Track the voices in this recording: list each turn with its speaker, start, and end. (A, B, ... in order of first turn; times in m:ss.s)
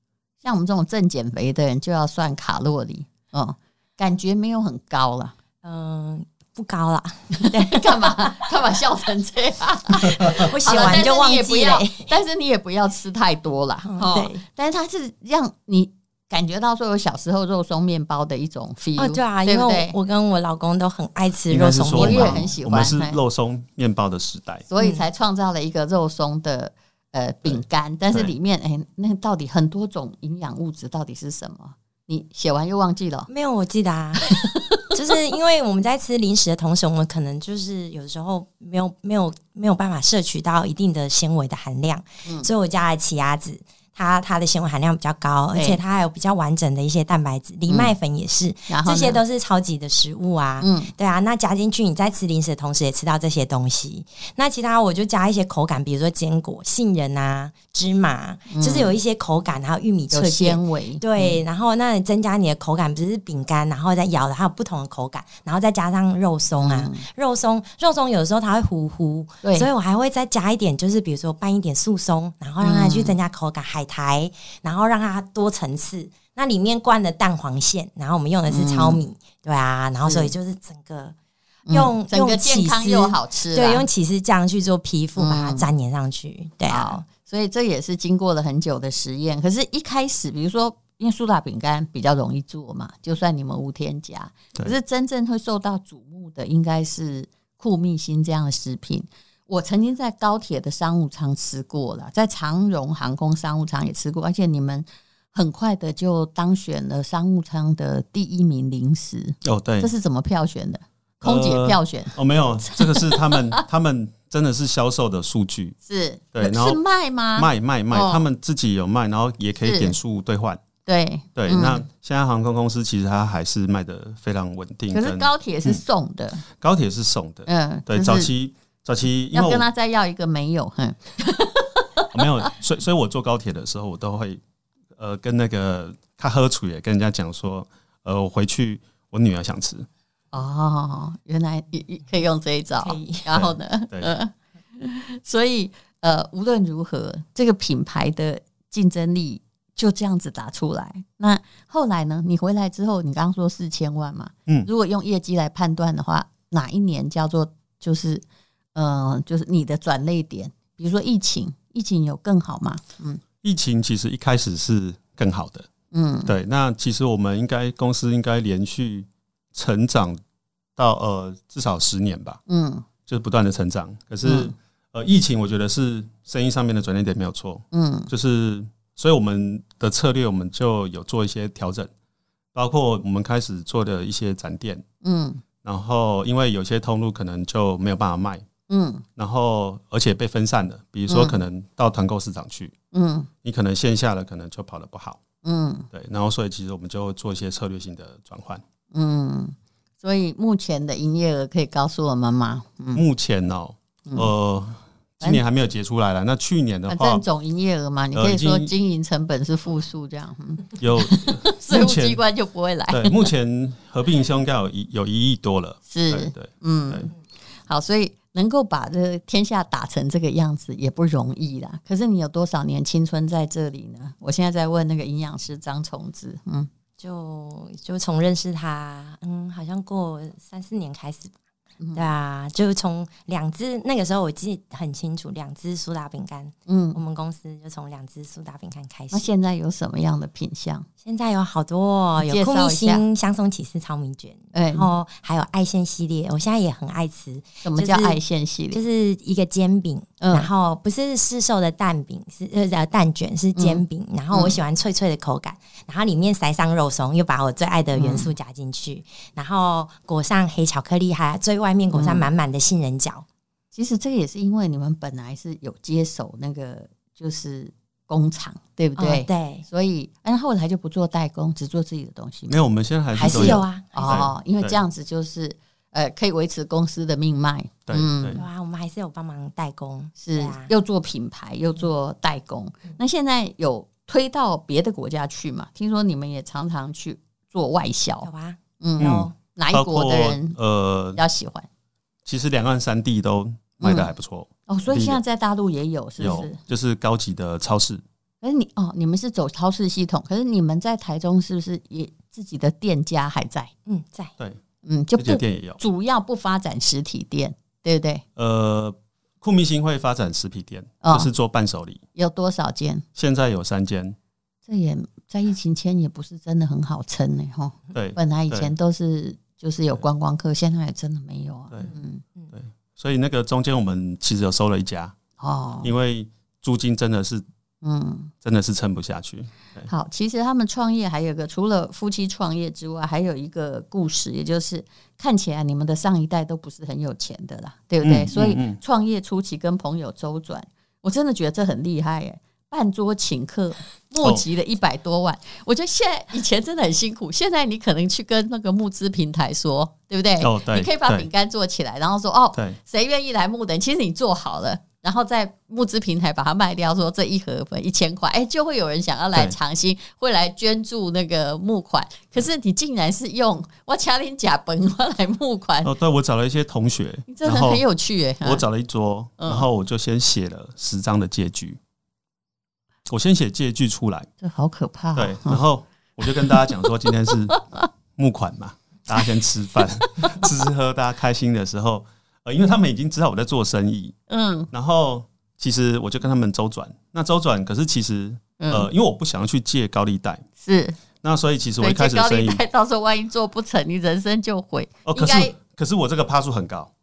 0:00.4-0:05.3 A
0:05.6-0:08.5 B
0:07.4-0:19.9 A
0:10.0-0:12.1 B
0:13.9-0:14.4 B
0:19.0-0:22.5 B
0:21.5-0:24.6 C
0:21.9-0:23.2 A
0:24.7-0:33.3 A
0:24.8-0:25.0 B
0:27.4-0:28.3 C
0:33.3-0:34.3 B
0:34.3-0:34.8 A
0:34.9-1:21.1 B
0:45.5-0:45.8 A
0:47.7-0:47.9 A
0:48.7-0:49.2 A
0:50.6-0:50.9 A
0:58.5-0:58.9 A
1:00.1-1:01.4 A
1:06.6-1:07.0 A
1:09.4-1:09.7 A
1:12.6-1:13.2 A
1:18.5-1:19.0 A
1:20.0-1:20.3 A
1:21.7-1:23.8 A
1:21.7-1:27.0 B
1:25.2-1:25.6 A
1:26.7-1:53.6 A
1:49.4-1:49.9 C
1:51.2-1:55.8 C
1:55.8-1:58.2 A
1:56.3-1:56.8 C
1:57.4-2:00.6 C
1:59.6-1:59.9 A
2:00.8-2:01.8 A
2:01.4-2:05.8 C
2:04.9-2:06.4 A
2:06.5-2:09.6 C
2:07.4-2:08.3 A
2:09.3-2:12.5 A
2:12.1-2:14.4 C
2:15.0-2:19.9 C
2:20.3-2:43.2 A
2:22.8-2:23.3 B
2:23.3-2:24.1 C
2:43.4-2:45.7 C
2:45.9-2:46.3 A
2:46.2-2:50.2 C
2:50.8-2:52.4 C
2:52.5-2:52.8 A
2:53.1-3:01.9 C
2:54.2-2:54.5 A
2:57.7-2:58.1 A
3:02.5-3:04.8 C
3:05.0-3:05.4 A
3:05.6-3:08.4 C
3:08.7-3:09.0 A
3:09.2-3:12.7 C
3:11.1-3:11.4 A
3:12.9-3:13.3 A
3:13.4-3:15.2 C
3:15.4-3:15.9 A
3:15.9-3:18.6 C
3:18.9-3:23.0 A
3:22.9-3:27.2 C
3:26.9-3:33.2 A
3:28.1-3:28.7 C
3:30.8-3:32.2 C
3:32.9-3:37.1 C
3:35.9-3:37.1 A
3:37.7-3:46.7 A
3:47.0-3:51.3 B
3:51.8-3:52.1 A
3:51.9-3:59.3 B
3:56.7-3:57.0 A
3:59.1-4:00.9 A
4:01.0-4:08.2 B
4:02.2-4:03.0 A
4:04.5-4:04.9 A
4:07.6-4:08.8 A
4:08.7-4:23.2 B
4:10.2-4:10.5 A
4:13.6-4:14.6 A
4:17.9-4:18.3 A
4:21.9-4:22.3 A
4:23.7-4:32.6 A
4:29.0-4:29.6 B
4:32.5-4:34.8 C
4:33.2-4:34.2 B
4:33.2-4:38.4 A
4:37.9-4:38.4 C
4:38.3-4:40.7 B
4:40.2-4:48.3 A
4:48.2-4:49.3 B
4:48.8-4:50.6 A
4:49.0-4:51.2 C
4:51.2-4:51.7 A
4:52.2-4:55.2 C
4:53.8-4:54.1 A
4:54.7-4:56.6 A
4:56.2-4:58.0 C
4:58.4-5:03.7 A
5:03.9-5:04.3 B
5:04.8-5:08.2 A
5:05.2-5:05.8 C
5:08.4-5:12.0 C
5:11.0-5:11.3 A
5:12.2-5:13.0 A
5:13.2-5:14.2 C
5:14.7-5:22.2 A
5:17.9-5:18.7 C
5:22.5-5:25.1 C
5:25.4-5:25.9 A
5:25.8-5:27.4 C
5:27.8-5:28.3 A
5:28.4-5:29.9 C
5:29.9-6:05.9 A
5:38.0-5:38.8 C
5:50.4-5:51.3 C
6:05.8-6:07.8 C
6:07.3-6:08.6 A
6:08.4-6:11.8 C
6:09.4-6:09.6 A
6:13.1-6:14.3 C
6:14.4-6:15.6 A
6:15.1-6:17.6 C
6:16.3-6:16.7 A
6:18.2-6:24.1 C
6:24.3-6:24.7 A
6:24.7-6:30.4 C
6:28.6-6:28.9 A
6:30.6-6:31.0 A
6:31.2-6:32.6 C
6:31.8-6:35.5 A
6:35.0-6:36.9 C